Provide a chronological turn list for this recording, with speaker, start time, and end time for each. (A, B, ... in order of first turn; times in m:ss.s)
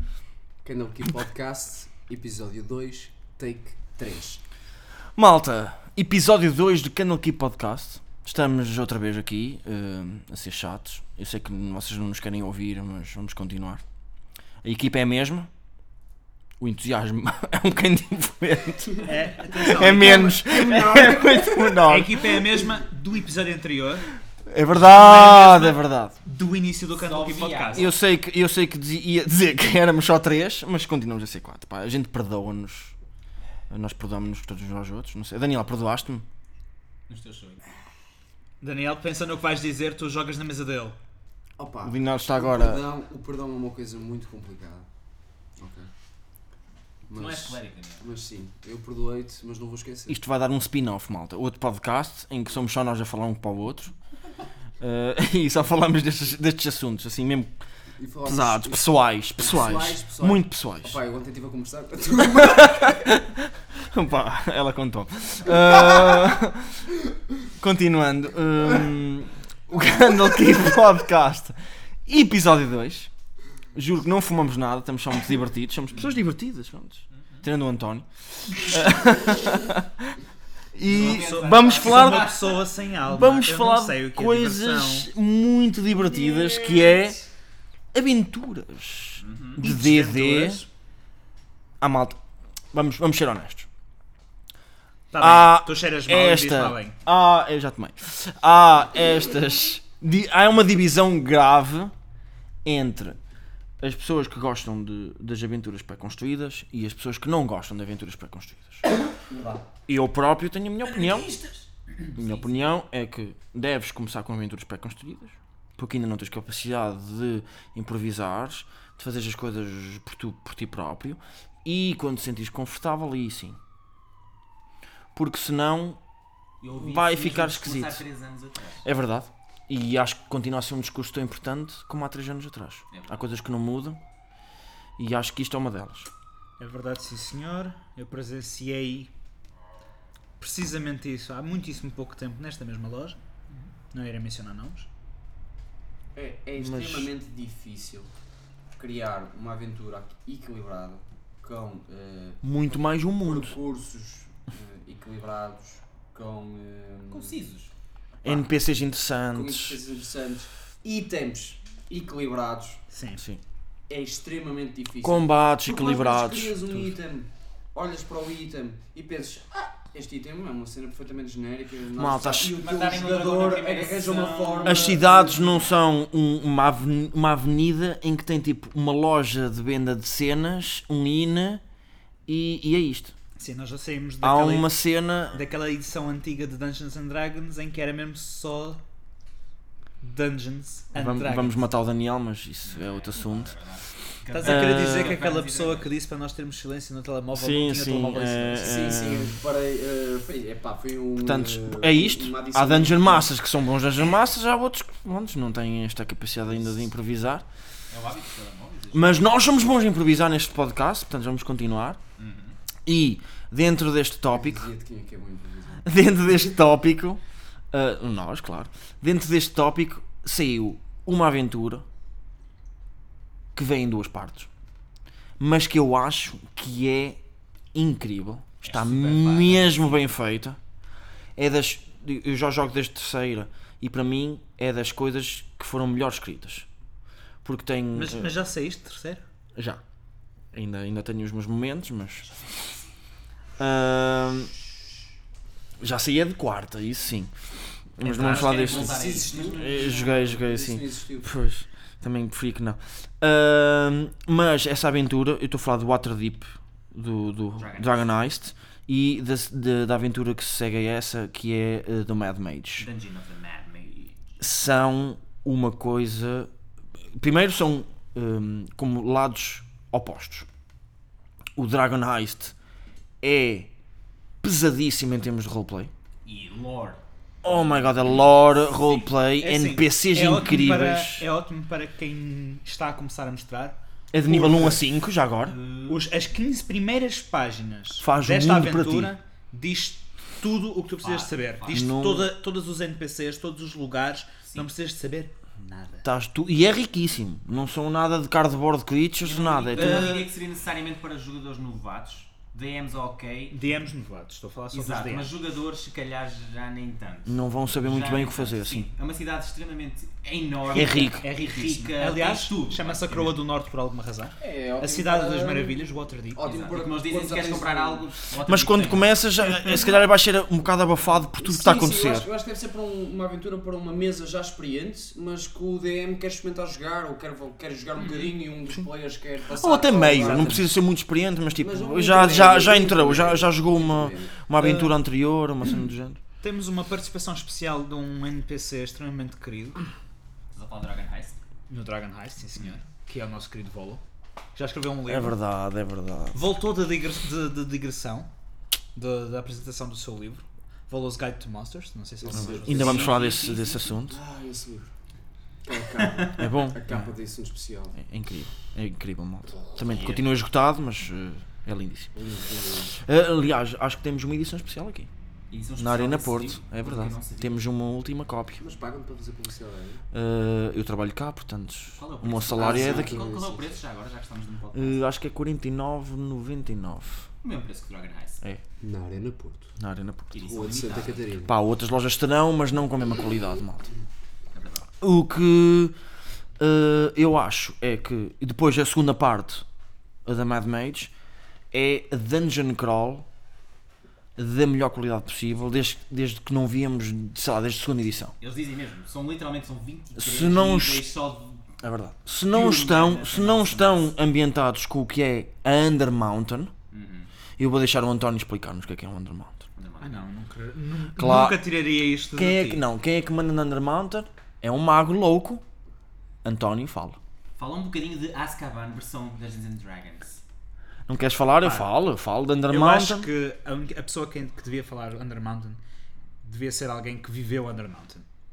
0:00.6-0:04.4 A
0:05.2-0:13.8 B
0:14.6-0:15.5 B
0:16.6-0:22.4 B
0:19.1-0:20.4 C
0:19.8-0:21.8 A
0:21.8-0:24.1 C
0:24.5-0:26.2 B
0:24.7-0:27.9 C
0:27.0-0:27.9 D
0:27.7-0:33.0 B
0:33.7-0:36.2 B
0:37.1-0:37.6 D
0:38.6-0:41.0 C
0:41.6-0:44.9 A
0:41.8-0:42.8 B
0:45.6-0:45.9 A
0:47.1-0:50.2 A
0:47.1-0:48.0 D
0:50.1-0:53.9 B
0:54.8-0:57.5 B
0:58.0-1:03.0 A
0:58.2-1:01.0 B
1:02.4-1:06.9 B
1:07.6-1:13.1 B
1:13.7-1:20.1 B
1:20.7-1:22.5 B
1:20.8-1:22.6 D
1:20.8-1:25.1 C
1:23.1-1:27.2 B
1:27.9-1:30.6 B
1:29.2-1:29.6 D
1:29.6-1:30.7 C
1:31.8-1:32.2 B
1:32.7-1:33.7 B
1:35.1-1:37.0 C
1:35.2-1:41.9 B
1:42.6-1:43.2 B
1:43.8-1:48.8 B
1:49.2-1:49.6 A
1:49.9-1:51.3 B
1:50.9-1:52.5 D
1:52.2-2:03.6 B
2:05.1-2:06.0 B
2:06.6-2:08.9 D
2:06.8-2:08.0 B
2:08.8-2:14.0 B
2:12.9-2:13.2 D
2:15.0-2:16.1 B
2:16.6-2:19.1 C
2:20.4-2:23.2 C
2:23.9-2:24.9 C
2:26.2-2:28.1 A
2:26.6-2:27.1 B
2:28.8-2:32.4 A
2:32.4-2:33.6 B
2:33.2-2:37.4 A
2:37.1-2:37.7 D
2:38.2-2:39.8 B
2:39.3-2:42.8 A
2:42.9-2:43.2 C
2:43.9-2:55.7 A
2:45.0-2:46.9 B
2:52.0-2:52.6 B
2:52.6-2:54.9 D
2:54.6-3:01.6 B
3:02.3-3:03.1 B
3:03.4-3:04.7 C
3:04.2-3:05.4 B
3:05.3-3:08.8 C
3:10.0-3:11.6 C
3:10.9-3:13.5 B
3:12.6-3:15.9 D
3:14.3-3:19.0 C
3:14.4-3:15.2 B
3:17.3-3:19.4 B
3:18.6-3:23.3 A
3:21.2-3:27.4 B
3:27.9-3:29.4 D
3:28.9-3:32.0 B
3:32.2-3:32.6 D
3:32.9-3:34.7 B
3:34.3-3:35.9 A
3:35.8-3:37.2 B
3:37.7-3:41.8 B
3:43.6-3:44.5 B
3:45.4-3:47.2 B
3:47.7-3:50.6 B
3:48.6-3:49.9 D
3:51.4-3:56.7 B
3:57.4-3:58.3 B
3:57.9-3:59.2 C
3:59.6-3:59.8 B
4:00.5-4:02.3 B
4:03.6-4:04.5 B
4:05.8-4:07.3 B
4:08.0-4:22.9 B
4:08.0-4:10.1 D
4:08.0-4:08.5 C
4:08.5-4:11.3 A
4:17.6-4:18.0 D
4:22.8-4:24.2 D
4:24.4-4:26.5 B
4:27.2-4:30.5 B
4:31.6-4:32.6 B
4:33.2-4:33.7 B
4:34.4-4:35.9 B
4:36.2-4:39.1 D
4:37.4-4:41.3 B
4:39.4-4:44.8 C
4:44.1-4:45.6 B
4:45.4-4:46.1 D
4:45.9-4:56.1 C
4:48.0-4:49.1 B
4:51.0-4:51.8 D
4:51.7-4:52.3 B
4:56.0-5:00.2 B
4:59.2-5:03.6 D
4:59.8-5:00.3 C
5:03.5-5:05.3 C
5:04.7-5:13.4 D
5:07.3-5:08.9 B
5:10.7-5:11.3 B
5:10.7-5:16.4 C
5:14.4-5:18.1 A
5:16.4-5:19.8 D
5:18.4-5:22.3 B
5:21.4-5:30.7 A
5:28.0-5:28.3 D
5:29.6-5:36.2 B
5:31.6-5:34.4 A
5:34.6-5:34.9 C
5:36.4-5:39.8 C
5:40.5-5:41.4 D
5:41.7-5:44.0 C
5:44.6-5:45.4 C
5:45.1-5:46.4 B
5:46.3-5:48.3 C
5:49.0-5:53.1 C
5:52.2-5:53.2 A
5:52.4-5:54.2 B
5:52.7-5:53.9 D
5:54.1-5:54.9 A
5:55.6-5:58.0 A
5:56.4-5:57.0 B
5:58.0-6:02.2 B
5:59.9-6:00.2 D
6:02.2-6:02.9 A
6:02.9-6:05.1 B
6:05.5-6:07.6 D
6:05.8-6:08.6 B
6:08.6-6:10.0 A
6:10.1-6:13.2 B
6:11.9-6:15.0 D
6:12.5-6:13.8 A
6:14.7-6:17.3 B
6:17.4-6:18.4 D
6:18.8-6:19.8 A
6:19.8-6:20.4 B
6:20.3-6:21.3 D
6:20.4-6:21.5 A
6:21.4-6:23.9 B
6:24.5-6:24.9 D
6:25.0-6:26.0 B
6:26.6-6:29.6 B
6:30.3-6:31.1 B
6:31.7-6:33.3 B
6:34.4-6:38.3 B
6:38.4-6:41.7 D
6:40.2-6:41.1 B
6:41.8-6:46.7 B
6:42.5-6:44.1 D
6:46.9-6:47.3 D
6:47.6-6:49.6 B
6:49.8-6:50.3 D
6:50.0-6:52.8 C
6:51.2-6:51.6 B
6:52.3-6:55.6 B
6:56.4-6:57.2 B
6:57.6-7:00.4 D
7:01.1-7:03.3 B
7:01.6-7:01.9 C
7:02.7-7:05.8 C
7:06.4-7:08.3 C